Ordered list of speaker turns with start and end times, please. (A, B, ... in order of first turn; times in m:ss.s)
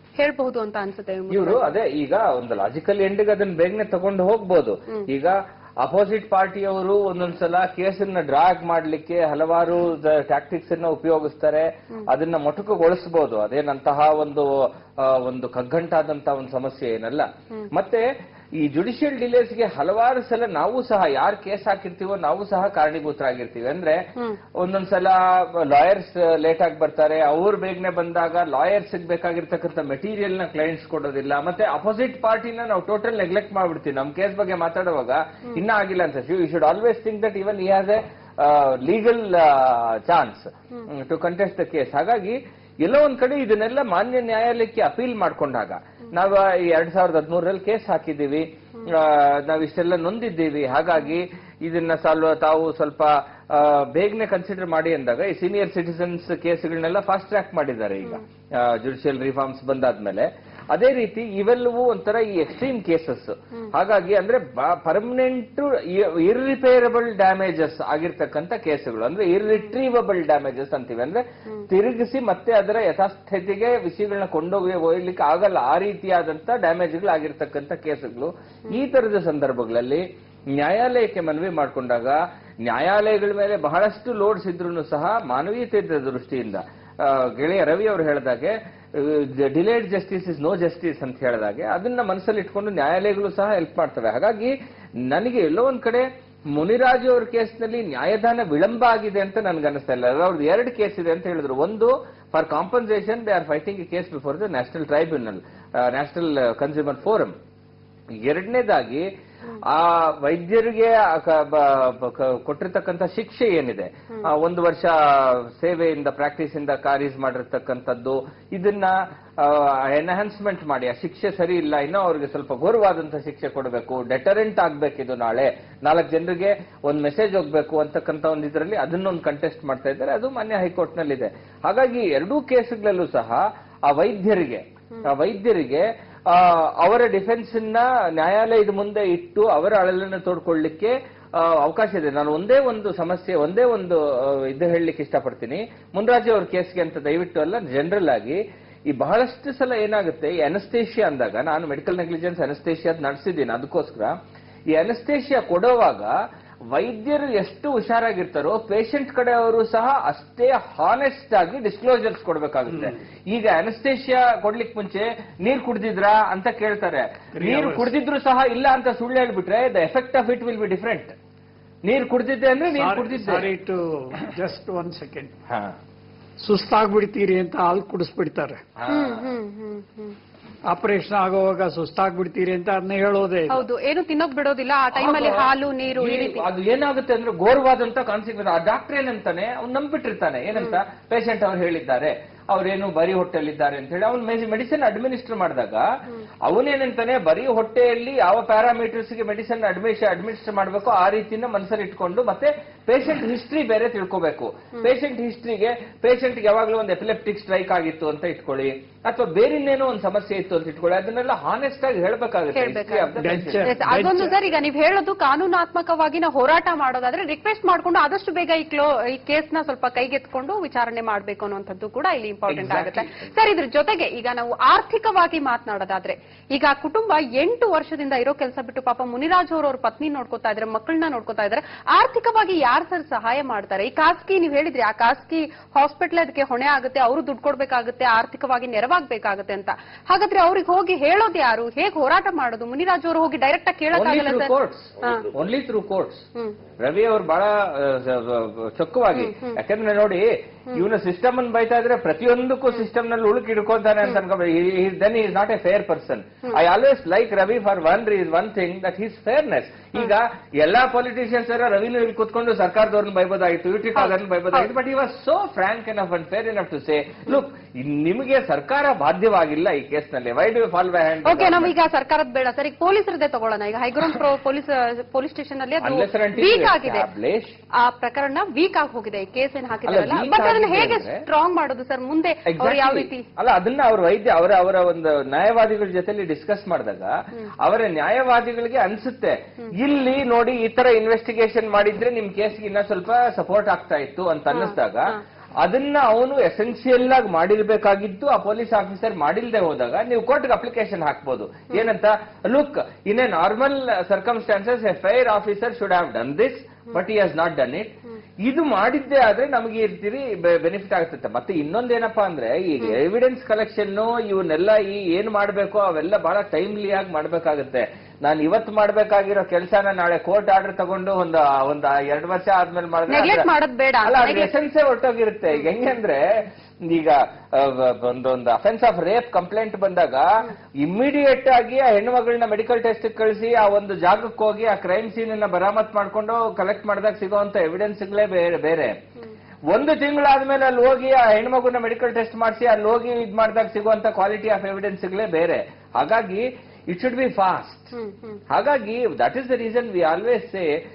0:00.2-0:01.7 A
0:01.3-0:18.0 B
0:18.6-0:24.0 B
0:24.6-1:34.5 B
1:35.1-1:47.3 B
1:48.2-1:49.0 B
1:49.7-2:34.1 B
2:34.7-2:36.1 B
2:36.7-2:51.1 B
2:47.3-2:47.9 C
2:51.8-2:53.5 B
2:52.7-2:55.4 C
2:55.5-2:55.8 B
2:56.4-2:58.6 C
2:58.8-2:59.2 B
2:58.9-3:00.2 A
3:00.6-3:03.7 C
3:03.5-3:06.4 A
3:05.0-3:05.5 B
3:06.0-3:15.8 B
3:16.4-3:33.8 B
3:32.5-3:33.1 A
3:33.2-3:34.4 C
3:33.6-4:05.3 A
3:42.5-3:43.1 B
4:03.9-4:06.2 B
4:06.8-4:31.7 B
4:09.1-4:09.5 A
4:24.0-4:24.7 A
4:31.2-4:37.1 A
4:35.8-4:37.6 B
4:37.8-4:43.2 A
4:39.9-4:41.2 B
4:42.5-5:23.5 B
4:54.5-4:55.2 A
5:23.1-5:24.5 A
5:24.0-5:26.2 B
5:26.9-5:30.2 B
5:30.8-5:39.0 B
5:39.7-5:47.9 B
5:47.9-5:48.4 A
5:48.5-5:50.7 B